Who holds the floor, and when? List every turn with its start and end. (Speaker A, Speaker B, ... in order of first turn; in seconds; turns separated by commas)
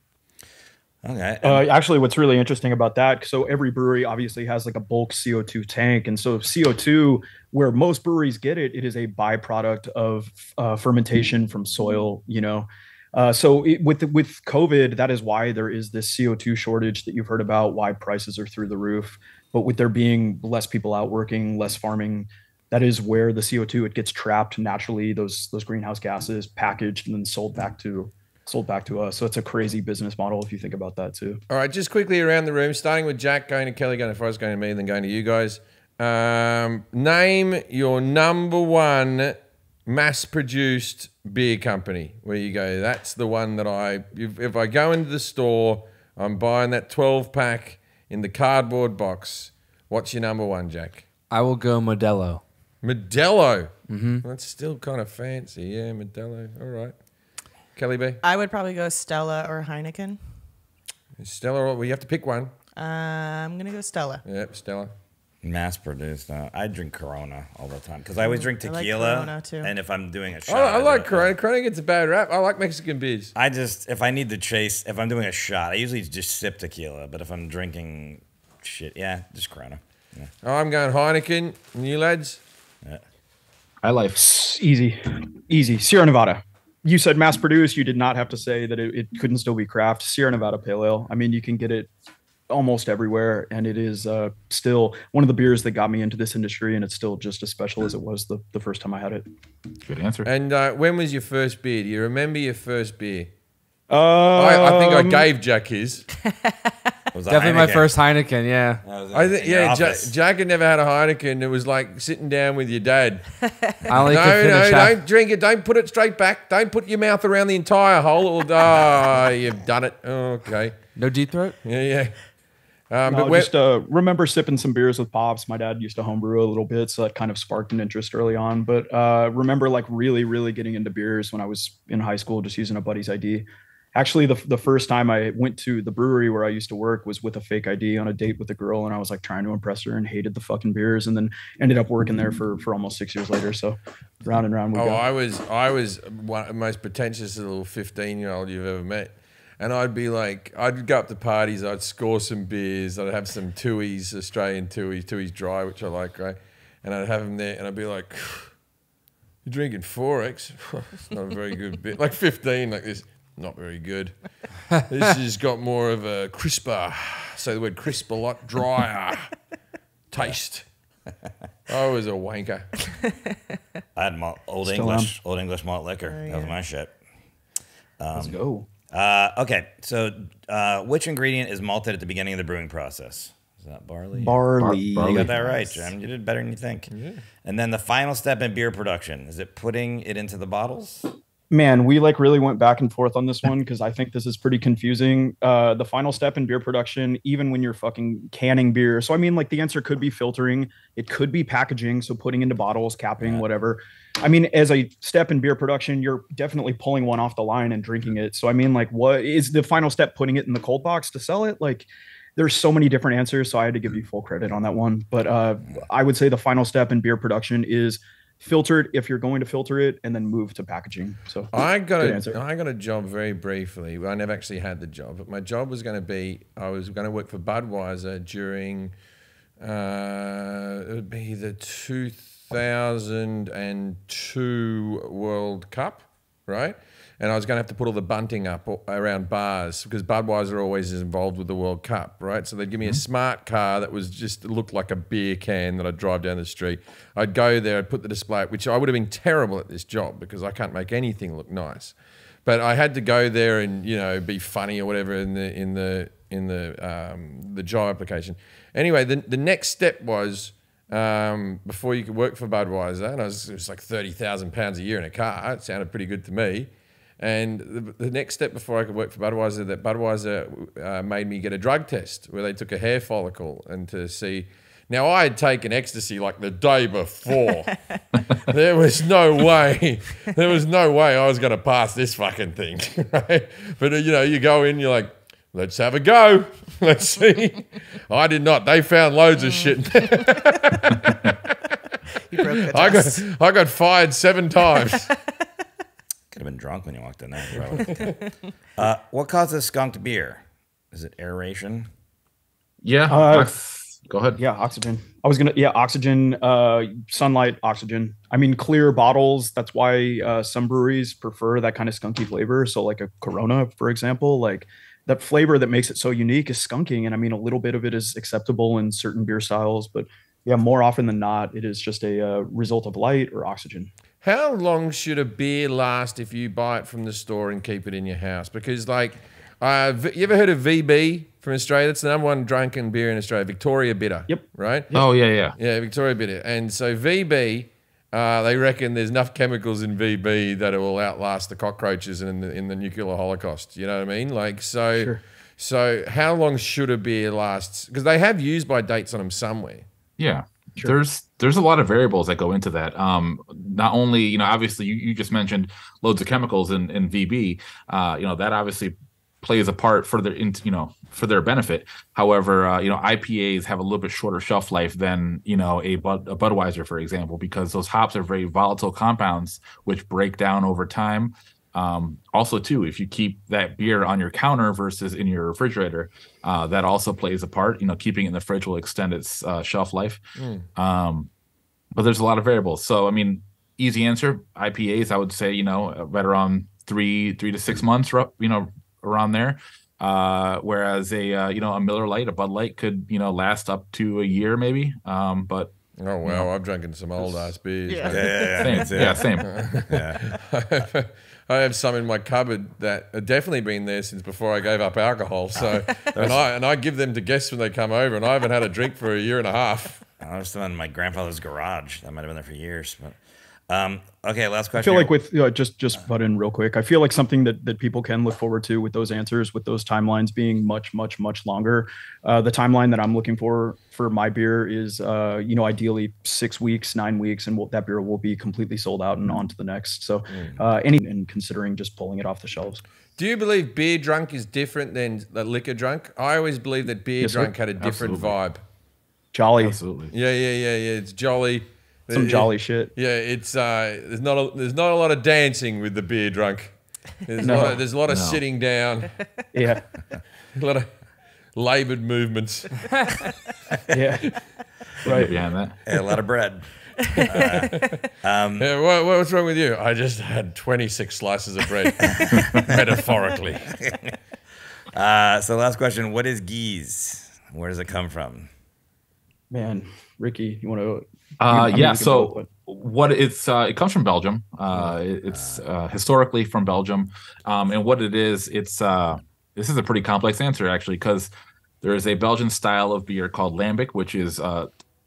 Speaker A: 1.0-1.7, Speaker B: 1.4-31.4, Speaker C: 31.5-51.1, Speaker D: 51.3-52.4, Speaker C: 52.8-57.0, Speaker D: 53.9-54.2, Speaker C: 57.8-58.2, Speaker E: 58.2-60.2, Speaker C: 61.2-62.5, Speaker E: 62.8-64.2, Speaker C: 64.2-64.9, Speaker A: 65.4-71.3, Speaker E: 68.2-69.7, Speaker C: 70.5-73.3, Speaker A: 73.3-80.3, Speaker C: 80.4-82.4, Speaker F: 83.8-84.2, Speaker B: 84.2-91.9, Speaker B: 92.5-99.2, Speaker F: 99.8-100.3, Speaker C: 100.2-103.3, Speaker B: 103.9-105.3, Speaker C: 104.4-106.1, Speaker E: 106.3-106.7, Speaker A: 107.1-107.9, Speaker D: 107.3-108.8, Speaker A: 108.8-110.1, Speaker C: 109.1-113.3, Speaker D: 113.9-115.0, Speaker C: 114.0-120.8, Speaker D: 121.0-121.6, Speaker C: 121.6-122.2, Speaker C: 122.9-123.5, Speaker B: 123.1-145.0, Speaker C: 144.7-158.6, Speaker C: 159.4-169.3, Speaker C: 170.1-170.7, Speaker C: 171.7-172.8, Speaker A: 173.9-177.0, Speaker B: 174.7-175.1, Speaker E: 176.1-176.5, Speaker A: 178.0-178.4, Speaker B: 178.2-178.7, Speaker A: 178.9-184.4, Speaker B: 184.2-185.9, Speaker F: 184.6-185.3, Speaker A: 185.0-186.9, Speaker C: 186.9-187.2, Speaker A: 187.4-191.1, Speaker B: 191.5-222.4, Speaker C: 221.5-228.9, Speaker C: 229.6-277.8, Speaker C: 278.4-291.6, Speaker E: 289.4-290.2, Speaker F: 290.9-291.3, Speaker E: 292.3-293.2, Speaker C: 292.4-295.1, Speaker A: 296.3-298.2, Speaker A: 298.8-301.9, Speaker F: 302.8-304.4, Speaker B: 303.1-303.5, Speaker B: 304.4-323.9, Speaker C: 324.2-349.9, Speaker B: 334.3-335.1, Speaker F: 334.9-335.6, Speaker F: 350.2-380.2, Speaker C: 380.4-380.7, Speaker F: 380.8-381.3, Speaker F: 381.9-395.7, Speaker C: 396.0-398.5, Speaker E: 397.9-398.9, Speaker A: 398.1-399.3, Speaker F: 398.6-399.8, Speaker C: 399.4-410.0, Speaker A: 399.9-400.4, Speaker A: 405.6-406.4, Speaker A: 410.2-413.2, Speaker A: 413.7-415.1, Speaker B: 414.8-432.8, Speaker C: 430.3-430.6, Speaker C: 433.2-438.6, Speaker B: 437.2-437.5, Speaker F: 437.8-438.4, Speaker B: 439.3-439.8, Speaker F: 439.6-440.1, Speaker C: 440.1-449.2, Speaker B: 442.1-442.9, Speaker B: 447.4-447.8, Speaker F: 448.0-448.4, Speaker B: 449.5-449.9, Speaker C: 450.5-451.0, Speaker C: 451.5-453.1, Speaker B: 453.9-455.4, Speaker F: 455.1-455.8, Speaker A: 455.9-458.7, Speaker C: 457.4-458.0, Speaker C: 458.6-463.7, Speaker A: 462.0-462.7, Speaker A: 463.6-464.2, Speaker A: 464.9-468.5, Speaker B: 469.5-472.5, Speaker F: 471.4-481.3, Speaker A: 475.3-475.6, Speaker F: 481.8-484.7